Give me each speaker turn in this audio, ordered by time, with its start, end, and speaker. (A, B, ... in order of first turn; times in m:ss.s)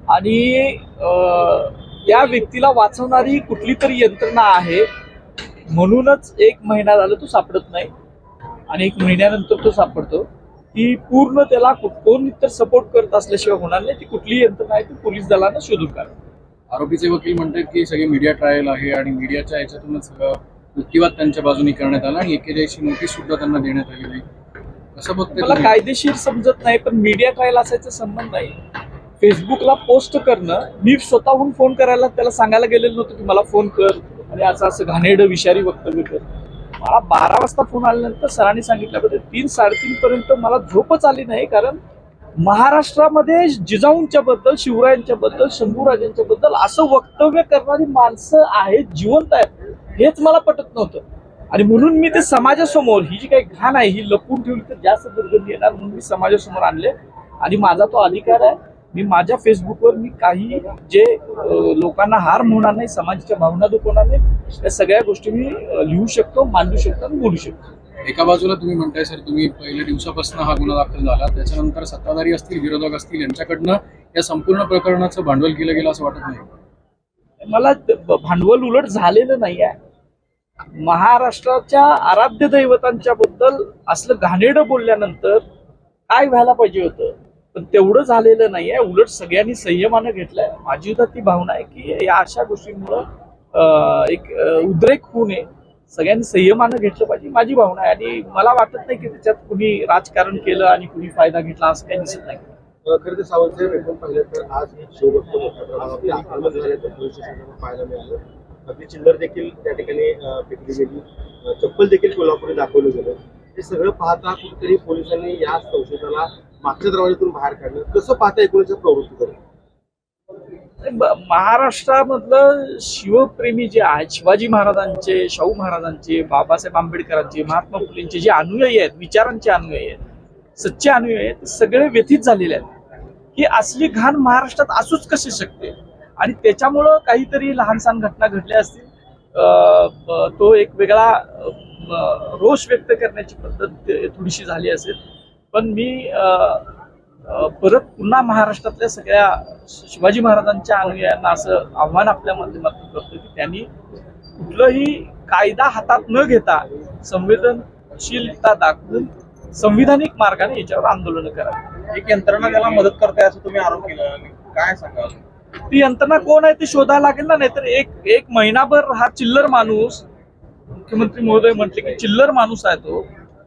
0:00.1-0:04.9 A
0:05.7-0:07.9 A
0:08.7-0:16.1 A
0:16.7-0:24.2 B
0:24.9-0:25.8 B
0:25.3-0:28.6 A
0:29.2-0:41.8 A
0:42.4-1:07.6 A
1:08.0-1:16.4 B
1:17.4-1:19.8 A
1:20.8-1:25.4 A
1:26.1-1:42.4 A
1:42.8-1:59.4 C
2:00.8-2:10.0 A
2:10.6-2:12.7 A
2:13.3-2:25.0 A
2:25.5-2:26.7 A
2:27.2-2:33.7 A
2:34.4-2:41.7 A
2:41.9-2:45.2 D
2:45.7-2:50.1 A
2:50.8-2:53.1 A